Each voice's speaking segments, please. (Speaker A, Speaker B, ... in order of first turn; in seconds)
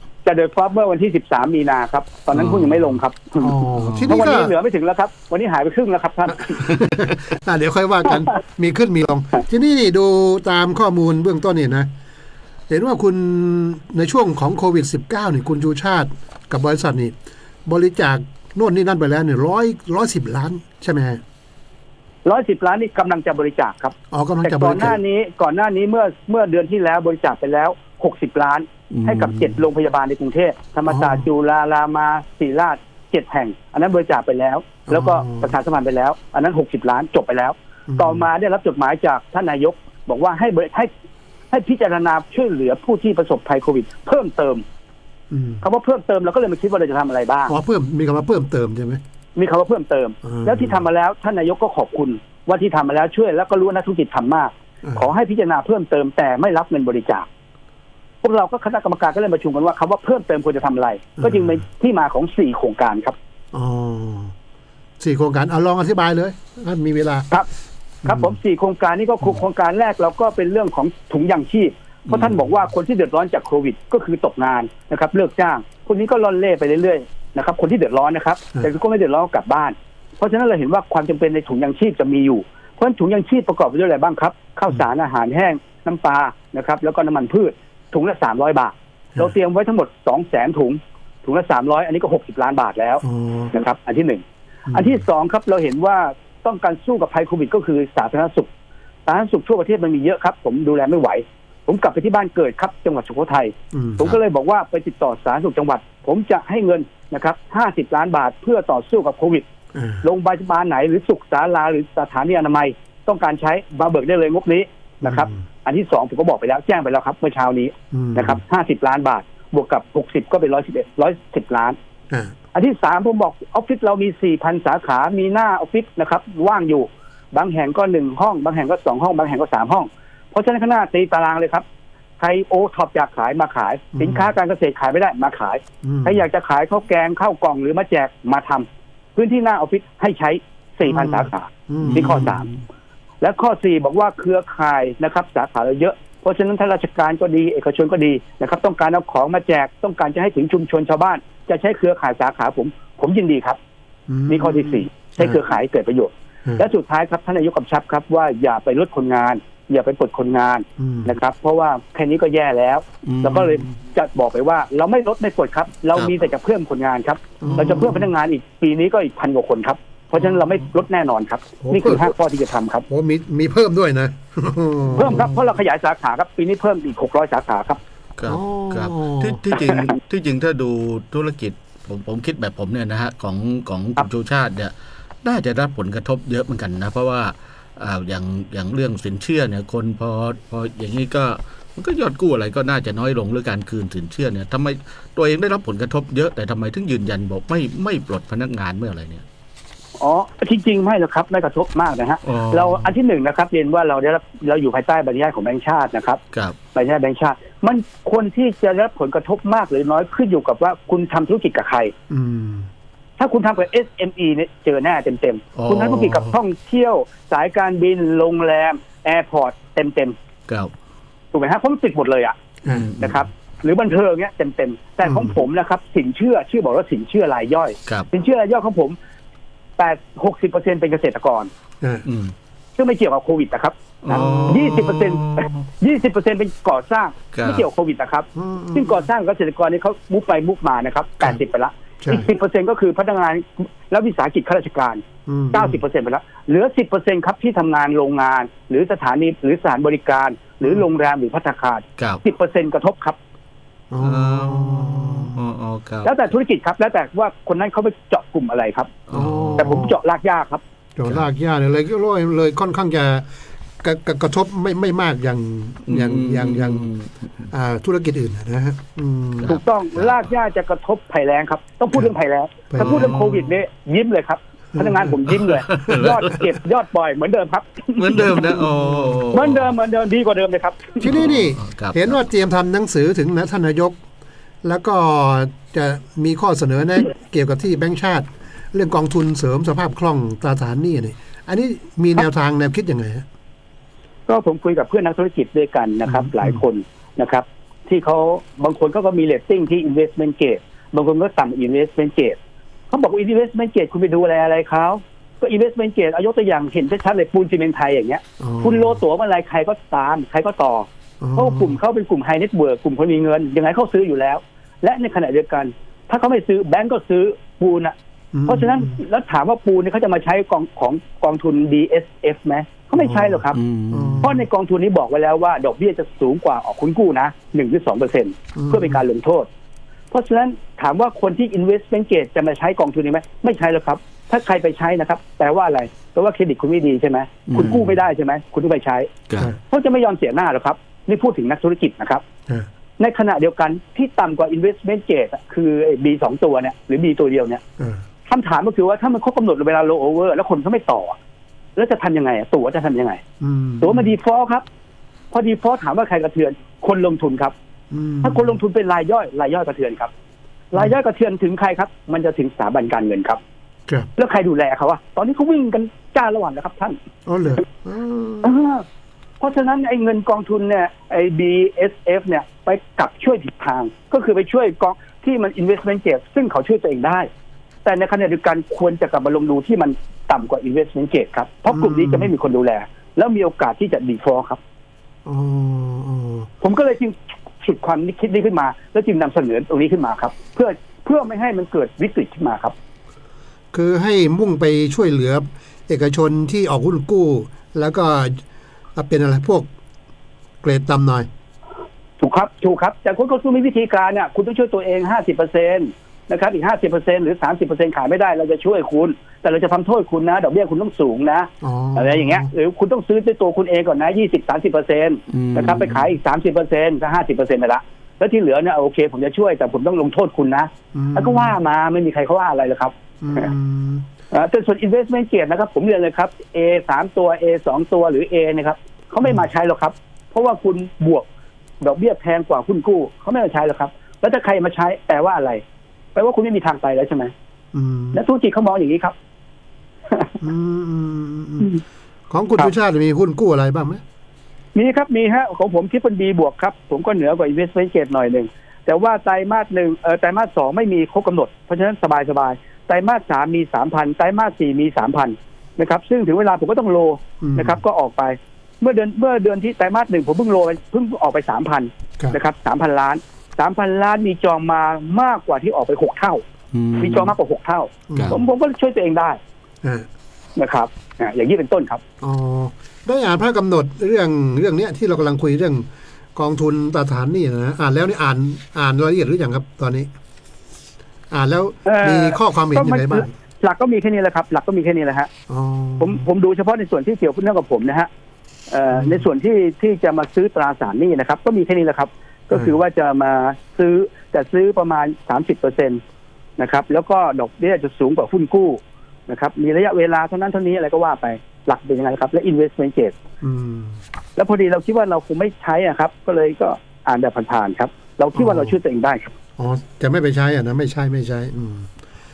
Speaker A: 0.2-6.6, 22.2-40.9, 41.5-44.6, 45.6-47.5, 49.4-57.3, 58.2-63.1, 68.0-98.5, 99.1-109.5, 110.0-121.8, 122.5-131.6, 132.2-142.5, 143.2-153.6, 154.3-172.9, 174.9-177.8, 200.0-206.2, 206.7-211.9, 213.2-220.2, 221.3-222.4, 223.0-229.0, 229.8-231.5, 232.8-253.2, 256.1-259.0, 259.6-260.6, 269.5-278.5, 279.3-281.1, 294.3-302.4, 302.9-317.9, 318.5-323.6, 324.2-329.5, 330.1-342.2, 343.0-347.6, 348.3-351.2, 351.8-353.2, 353.8-354.6, 355.3-357.5, 358.2-360.1, 360.7-363.4, 364.2-367.0, 368.4-368.9, 369.4-377.3, 377.8-384.6, 386.6-392.7, 402.2-423.5, 424.3-431.3, 431.8-435.6, 436.1-437.3, 438.1-439.1, 444.8-466.4, 467.0-469.4, 470.6-472.0, 481.9-485.3, 486.0-488.1, 488.7-496.0, 496.6-503.1, 504.4-509.3
Speaker B: 2.3-3.0, 3.8-4.2, 6.7-7.1, 28.9-29.6, 72.1-72.4, 141.8-142.6, 163.1-163.6, 167.5-167.9, 175.0-175.2, 178.2-199.2, 202.2-202.9, 215.6-216.2, 222.7-223.2, 232.1-232.3, 234.0-235.5, 237.3-237.7, 254.0-256.1, 259.1-259.9, 265.9-267.5, 269.4-270.3, 272.8-273.5, 275.3-276.3, 278.0-279.7, 281.0-282.2, 323.5-324.3, 337.5-337.9, 415.3-416.1, 466.7-467.4
Speaker C: 3.4-4.5, 7.3-11.9, 12.7-17.1, 17.7-21.2, 24.1-25.0, 30.9-31.3, 34.9-35.6, 37.9-38.3, 45.3-45.6, 47.5-49.0, 50.2-50.8, 61.2-61.6, 63.5-64.3, 65.0-67.3, 68.0-68.3, 93.0-93.5, 94.7-95.0, 103.7-104.2, 109.7-110.1, 115.0-115.4, 117.9-118.4, 133.9-134.3, 135.8-136.2, 140.8-142.4, 154.1-155.4, 160.8-161.2, 167.4-168.1, 171.6-172.1, 172.9-175.3, 178.3-179.4, 212.1-212.7, 222.7-222.9, 225.0-225.4, 231.8-232.1, 234.1-234.8, 238.3-239.1, 242.0-242.3, 245.3-245.8, 253.9-255.4, 259.1-260.0, 261.0-263.3, 263.8-266.9, 267.5-269.6, 272.7-273.3, 274.8-275.2, 276.0-276.4, 278.8-279.3, 281.0-284.0, 284.6-293.2, 296.1-296.6, 308.4-309.0, 311.2-311.8, 318.3-319.0, 322.9-324.4, 328.6-329.0, 353.4-354.1, 357.9-358.6, 367.3-368.6, 381.7-382.3, 385.3-386.5, 393.7-398.4, 398.9-399.7, 400.6-401.3, 411.6-412.5, 420.9-421.6, 423.2-424.1, 429.2-429.5, 437.7-438.2, 440.4-441.8, 442.3-444.0, 457.4-457.8, 468.1-468.4, 472.2-480.1, 481.3-483.3, 485.5-486.2, 488.9-489.3, 492.5-492.8, 503.4-504.0, 508.4-508.8, 509.6-511.9